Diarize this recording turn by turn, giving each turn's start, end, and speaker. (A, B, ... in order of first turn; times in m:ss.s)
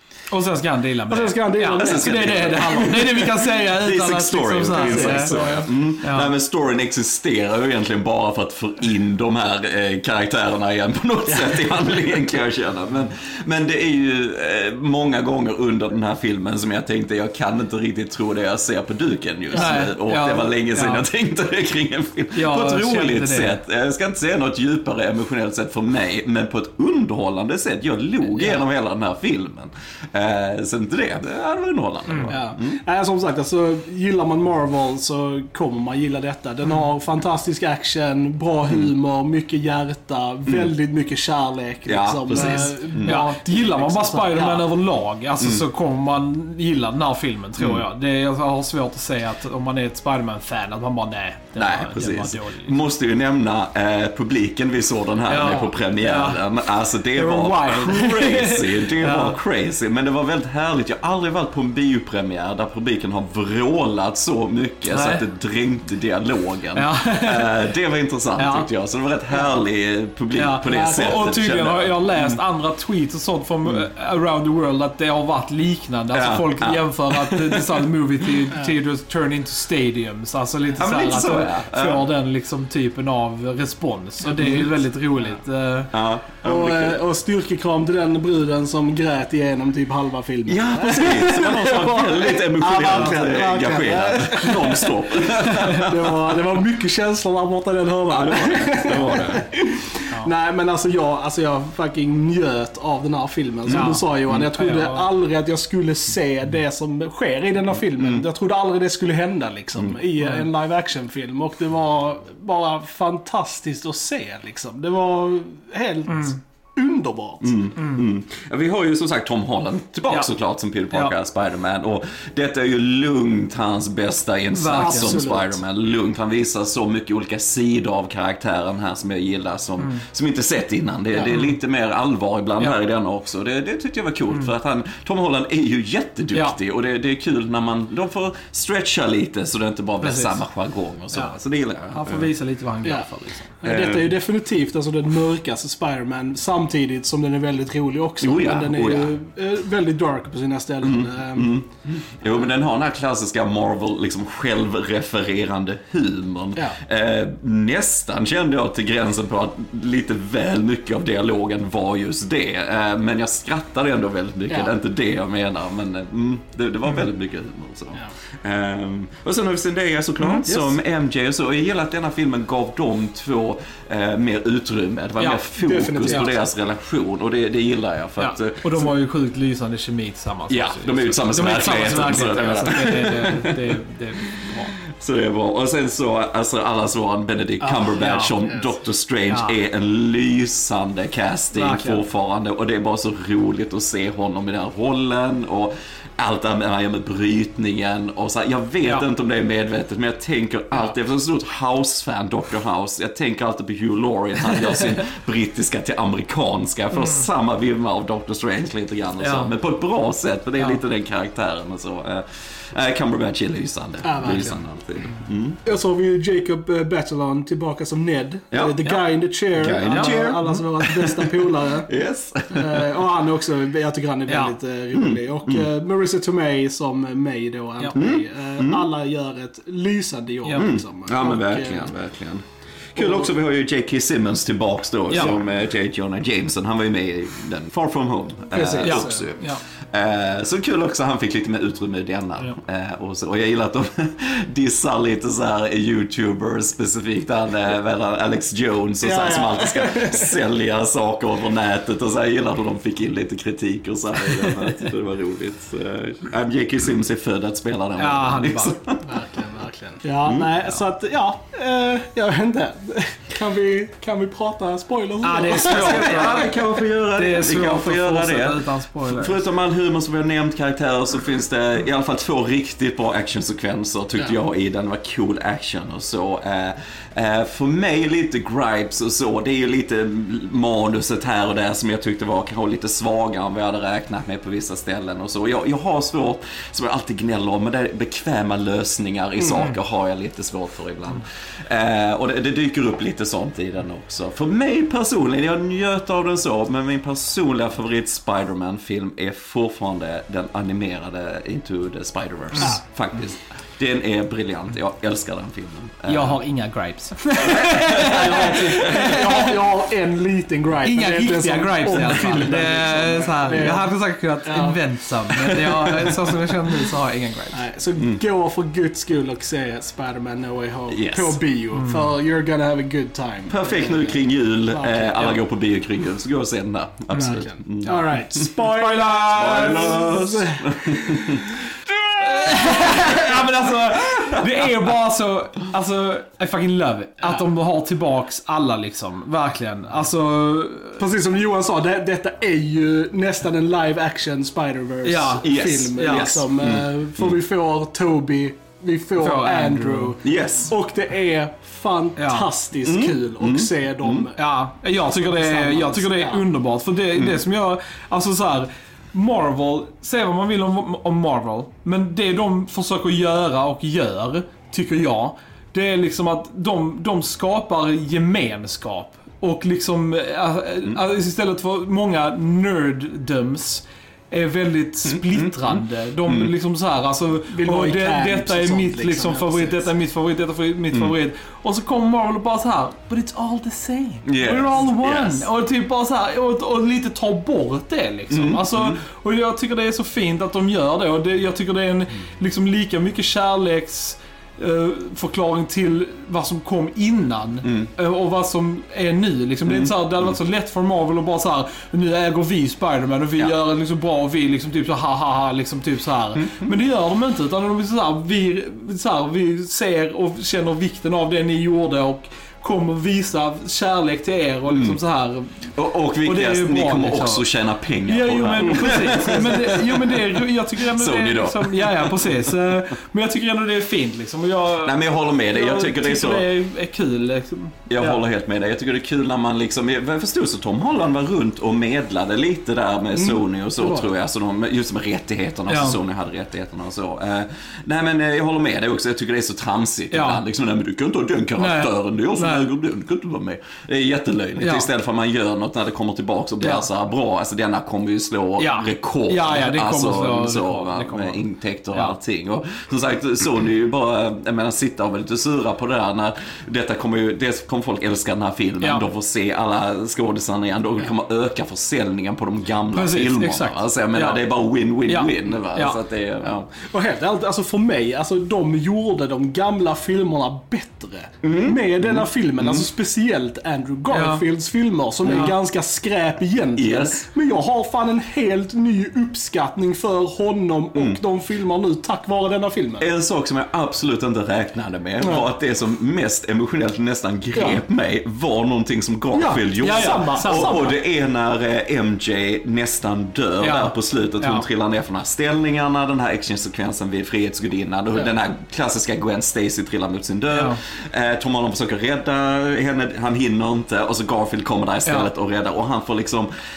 0:00.3-0:06.3 A
0:01.1-0:03.2 B
0:01.8-0:32.8 C
0:04.7-0:05.7 B
0:19.5-0:19.8 B
0:19.5-0:21.0 A
0:22.4-0:23.6 A
0:28.4-0:28.6 B
0:32.1-0:32.3 A
0:32.3-0:44.7 B
0:40.5-0:40.7 C
0:41.9-0:43.2 C
0:42.3-0:52.8 A
0:45.4-0:45.6 C
0:47.6-0:47.8 C
0:51.6-1:12.4 C
0:55.3-0:56.4 A
0:57.1-0:59.4 A
1:04.9-1:05.2 A
1:06.8-1:07.6 A
1:08.4-1:08.7 A
1:10.4-1:25.9 A
1:10.7-1:11.0 B
1:16.1-1:18.3 C
1:20.8-1:22.1 C
1:24.3-1:24.7 C
1:25.9-1:27.0 C
1:26.4-1:57.6 B
1:30.5-1:36.4 C
1:32.8-1:33.3 A
1:34.3-1:34.7 A
1:35.5-1:35.8 A
1:38.1-1:39.5 C
1:43.7-1:44.5 C
1:43.7-1:45.1 A
1:48.0-1:48.2 C
1:50.2-1:50.5 A
1:56.1-1:56.4 A
1:57.4-2:22.3 C
1:57.8-1:58.0 A
2:04.6-2:05.3 A
2:04.8-2:05.6 B
2:11.2-2:11.6 A
2:20.0-2:20.4 A
2:21.9-2:23.6 A
2:22.8-2:23.1 B
2:23.6-2:31.6 B
2:23.6-2:24.1 C
2:28.2-2:29.2 C
2:30.8-2:58.9 C
2:50.2-2:50.6 A
2:55.2-2:55.4 A
2:55.6-2:56.4 B
2:58.2-3:04.8 A
3:00.5-3:03.8 C
3:04.4-3:35.6 C
3:07.6-3:07.9 B
3:07.9-3:08.4 A
3:09.3-3:09.6 A
3:11.5-3:12.0 A
3:27.0-3:27.3 A
3:29.2-3:29.5 A
3:34.0-3:34.6 B
3:35.6-3:41.9 B
3:38.5-3:38.8 C
3:39.6-3:43.1 C
3:39.8-3:40.6 A
3:42.5-3:51.9 B
3:44.3-3:44.6 A
3:44.9-3:45.7 C
3:47.9-3:48.8 C
3:50.6-4:19.2 C
3:55.1-3:55.4 A
3:58.5-3:59.6 A
3:58.6-3:59.2 B
4:09.0-4:10.4 B
4:14.4-4:14.7 A
4:18.0-4:18.8 A
4:19.0-4:26.4 B
4:20.2-4:20.5 C
4:25.2-4:29.4 A
4:25.5-5:06.4 C
4:49.4-4:49.6 B
5:06.1-5:09.6 A
5:07.4-5:08.8 C
5:07.9-5:13.9 B
5:10.9-5:17.6 A
5:14.4-5:14.8 B
5:15.3-5:16.2 B
5:15.5-5:16.2 C
5:17.5-5:25.4 B
5:18.0-5:18.2 C
5:20.9-5:21.4 C
5:21.7-5:22.1 A
5:23.5-5:28.5 C
5:27.1-5:27.4 A
5:27.1-5:31.6 B
5:28.6-5:30.2 A
5:29.2-5:31.6 C
5:32.1-5:33.2 B
5:32.2-5:41.0 A
5:34.0-5:34.9 C
5:41.0-5:56.5 B
5:45.0-5:46.4 A
5:45.4-5:47.4 C
5:49.2-5:50.2 A
5:50.2-5:50.7 C
5:52.2-5:52.5 A
5:52.8-5:54.3 C
5:54.4-6:55.6 A
5:57.2-5:57.4 C
6:15.0-6:16.5 C
6:17.5-6:19.9 B
6:24.3-6:25.5 C
6:28.3-6:29.0 C
6:37.6-6:37.9 C
6:39.6-6:40.3 C
6:46.4-6:46.8 C
6:54.7-6:55.0 C
6:55.8-7:02.6 C
6:56.2-6:57.4 A
6:58.0-7:08.2 A
6:58.6-6:59.8 B
7:04.8-7:06.5 C
7:07.9-7:46.7 C
7:13.2-7:14.0 B
7:15.7-7:16.0 A
7:20.1-7:20.4 A
7:21.6-7:22.7 A
7:24.6-7:24.9 A
7:26.6-7:26.9 A
7:28.6-7:32.2 A
7:42.9-7:44.4 A
7:45.1-7:46.0 A
7:46.8-8:03.1 B
7:51.4-7:52.9 C
7:54.1-7:54.4 A
7:55.2-7:55.5 A
7:55.3-7:55.5 C
7:56.8-7:57.2 C
8:00.9-8:01.2 C
8:03.0-8:26.5 C
8:05.2-8:05.5 B
8:07.6-8:07.8 B
8:09.3-8:10.9 B
8:09.8-8:10.9 A
8:13.6-8:14.7 A
8:20.5-8:20.8 A